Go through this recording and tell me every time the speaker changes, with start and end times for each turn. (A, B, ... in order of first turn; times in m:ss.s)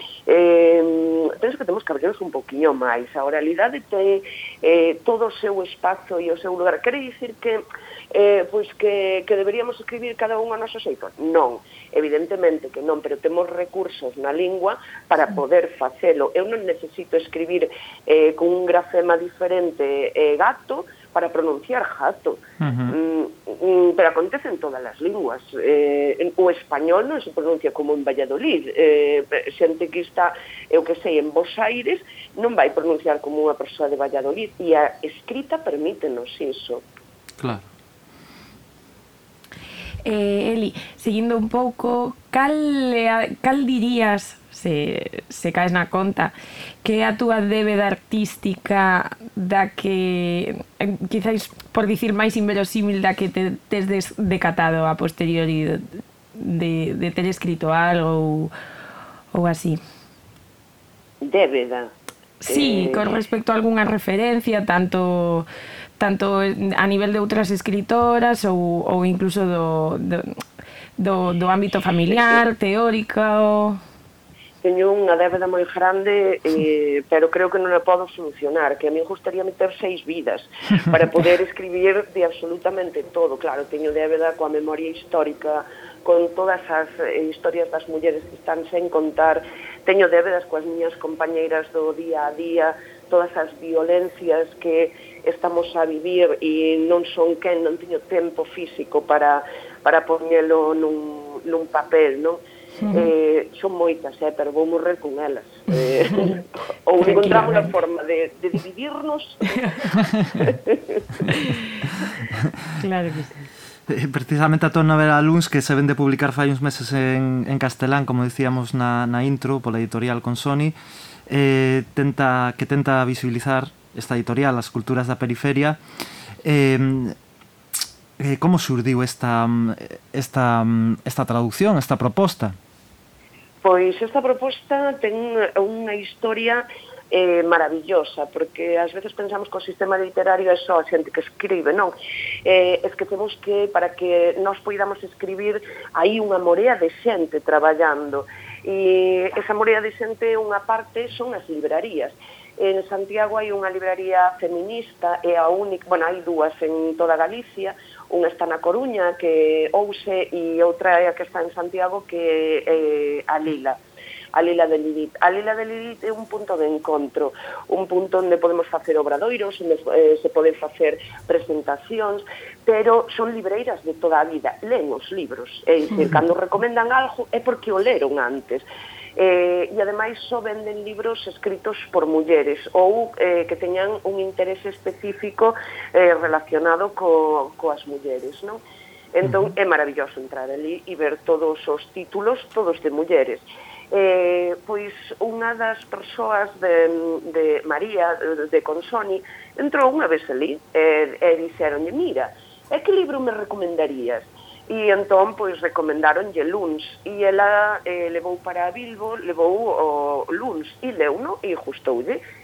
0:00.3-0:36.8 A
0:22.6-0:23.0 B
0:40.0-0:58.5 C
0:59.3-0:59.8 C
1:01.2-1:01.9 A
1:02.4-1:05.5 C
1:02.4-1:03.1 A
1:06.0-1:10.4 C
1:11.0-1:13.8 C
1:14.6-1:49.6 A
1:42.8-1:43.1 C
1:47.0-1:47.7 C
1:49.5-1:49.8 C
1:50.4-1:51.0 A
1:51.3-1:51.7 C
1:52.8-1:53.4 C
1:53.9-2:00.8 B
2:01.3-2:05.8 B
2:06.4-2:07.2 B
2:08.2-2:12.6 B
2:13.6-2:21.9 A
2:22.4-2:43.8 A
2:44.3-2:58.6 A
2:59.2-3:08.6 A
3:09.1-3:32.2 A
3:09.2-3:09.5 B